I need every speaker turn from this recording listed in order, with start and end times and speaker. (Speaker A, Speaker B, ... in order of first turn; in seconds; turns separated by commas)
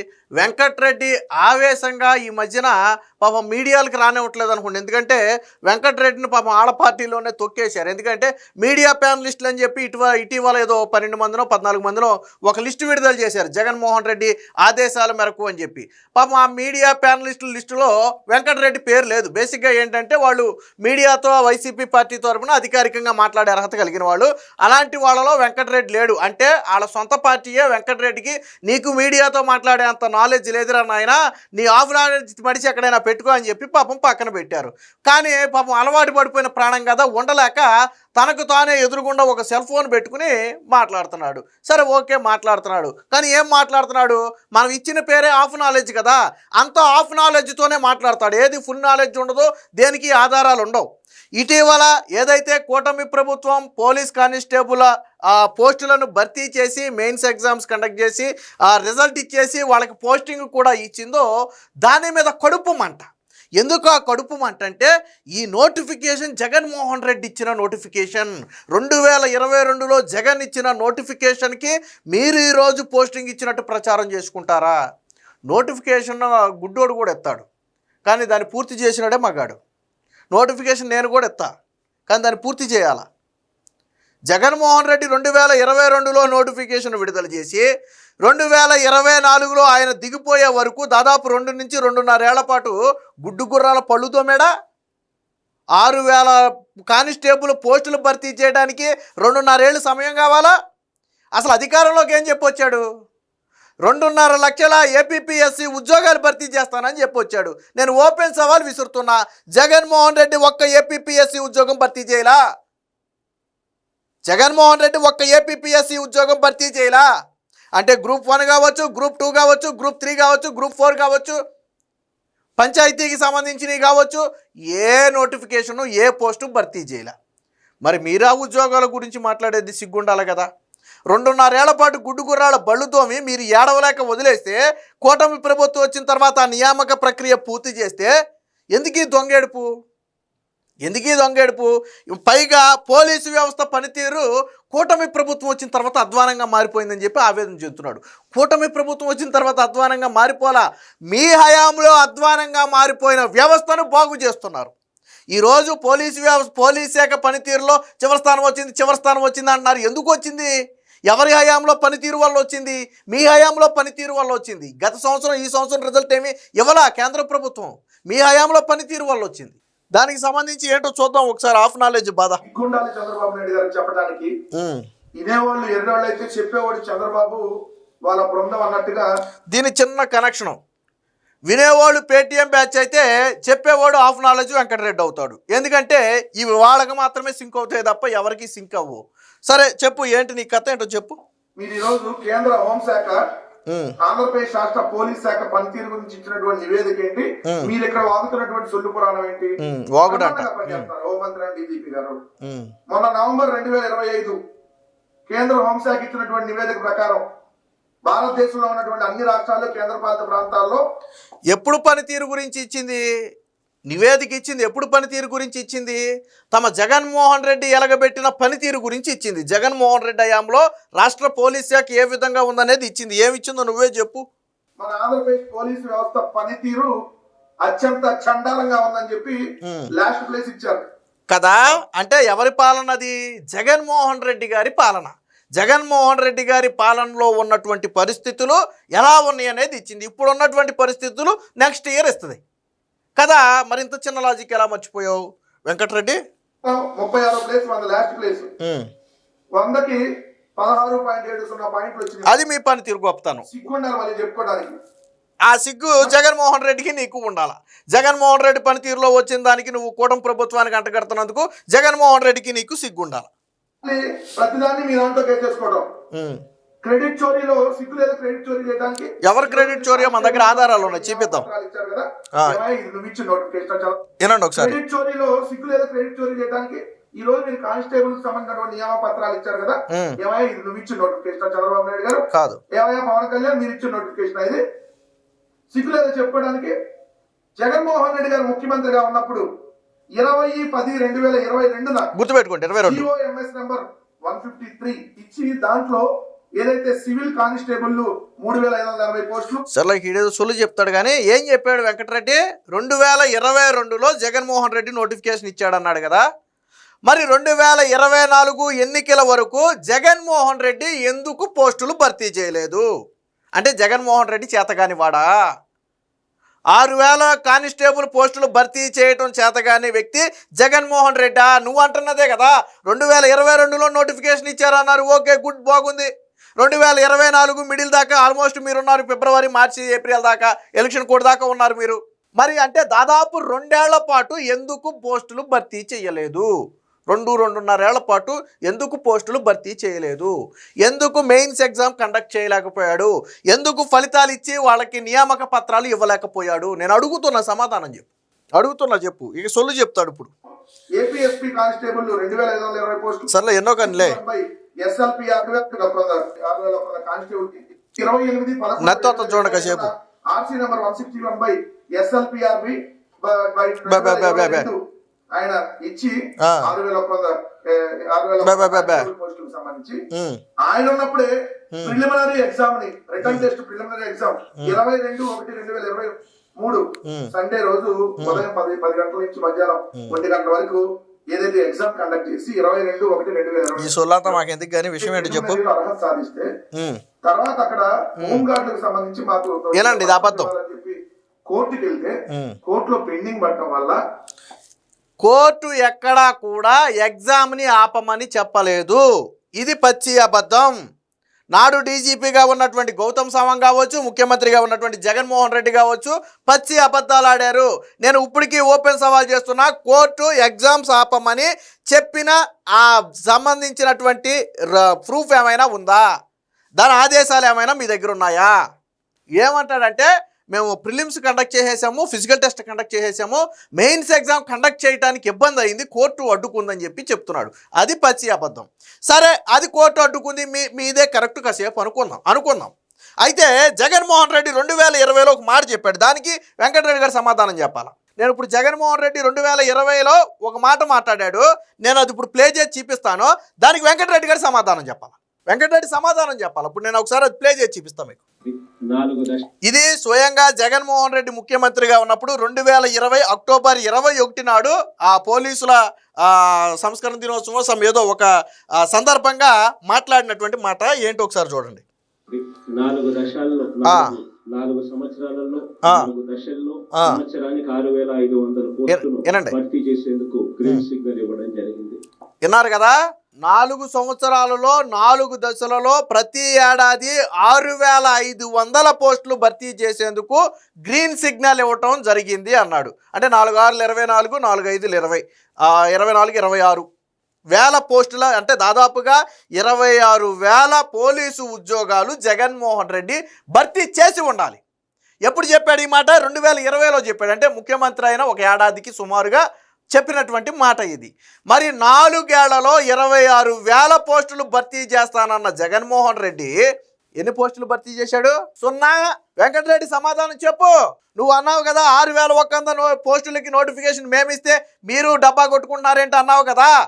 Speaker A: 0.4-50.8, Speaker A: 51.4-61.3, Speaker A: 61.8-63.0, Speaker A: 63.6-74.8, Speaker A: 75.5-77.5, Speaker A: 78.1-79.6, Speaker A: 80.3-81.5, Speaker A: 82.1-83.1, Speaker A: 84.3-87.7, Speaker A: 88.2-94.5, Speaker A: 95.8-96.4, Speaker A: 96.9-100.5, Speaker A: 101.4-102.8, Speaker A: 103.8-112.4, Speaker A: 114.3-117.1, Speaker A: 117.8-121.4, Speaker A: 122.6-127.1, Speaker A: 127.8-130.5, Speaker A: 131.1-138.1, Speaker A: 138.8-139.7, Speaker A: 140.9-154.7, Speaker A: 155.3-160.5, Speaker A: 161.1-172.4, Speaker B: 172.4-174.3, Speaker A: 174.5-174.8, Speaker B: 175.2-177.5, Speaker B: 178.1-179.1, Speaker A: 179.5-180.6, Speaker A: 181.5-191.2, Speaker B: 191.6-193.2, Speaker A: 193.7-193.9, Speaker B: 194.0-199.5, Speaker A: 197.5-197.7, Speaker A: 199.6-200.9, Speaker B: 200.1-202.2, Speaker A: 202.4-202.7, Speaker B: 202.9-204.4, Speaker B: 205.3-207.2, Speaker B: 208.1-210.8, Speaker A: 211.5-213.0, Speaker A: 213.9-216.0, Speaker A: 216.5-224.2, Speaker B: 224.8-226.9, Speaker B: 227.6-229.4, Speaker A: 229.6-229.9, Speaker B: 229.9-230.8, Speaker A: 231.3-242.4, Speaker A: 243.2-246.2, Speaker B: 246.6-248.5, Speaker A: 248.6-248.9, Speaker B: 249.6-250.0, Speaker B: 250.6-252.3, Speaker A: 252.3-253.4, Speaker B: 253.5-254.7, Speaker A: 255.5-263.3, Speaker B: 263.8-265.9, Speaker A: 266.1-266.4, Speaker B: 266.8-274.0, Speaker A: 269.2-271.4, Speaker A: 274.2-274.8, Speaker B: 274.6-284.6, Speaker A: 279.9-280.2, Speaker A: 282.3-282.6, Speaker B: 285.7-286.7, Speaker B: 287.6-289.4, Speaker B: 290.2-292.1, Speaker A: 292.1-293.1, Speaker B: 292.9-296.1, Speaker B: 296.6-299.6, Speaker A: 299.7-306.2, Speaker A: 307.1-312.8, Speaker A: 313.6-315.3, Speaker A: 316.7-336.5, Speaker A: 337.1-350.3, Speaker B: 351.0-353.3, Speaker A: 353.3-354.2, Speaker B: 353.8-364.8, Speaker A: 358.8-359.9, Speaker A: 363.9-364.7, Speaker B: 365.3-370.0, Speaker A: 366.4-366.7, Speaker A: 368.4-369.1, Speaker A: 370.1-370.4, Speaker B: 370.6-371.3, Speaker A: 371.7-372.0, Speaker B: 371.8-384.4, Speaker A: 377.0-377.3, Speaker A: 378.2-378.4, Speaker A: 383.8-385.6, Speaker B: 385.0-386.5, Speaker B: 387.2-391.0, Speaker A: 388.2-388.4, Speaker A: 389.7-390.5, Speaker B: 391.5-392.1, Speaker A: 392.3-392.6, Speaker B: 392.6-394.0, Speaker A: 395.2-399.0, Speaker A: 399.6-400.7, Speaker A: 401.5-416.0, Speaker A: 416.8-418.5, Speaker A: 419.4-432.7, Speaker A: 433.2-448.2, Speaker C: 448.4-449.5, Speaker A: 449.6-458.3, Speaker A: 458.8-461.8, Speaker C: 462.3-472.0, Speaker A: 463.8-464.1, Speaker A: 465.8-466.1, Speaker A: 466.9-467.2, Speaker A: 468.9-469.6, Speaker A: 472.4-486.9, Speaker A: 487.5-494.6, Speaker A: 495.3-499.4, Speaker A: 499.9-506.5, Speaker A: 507.2-516.7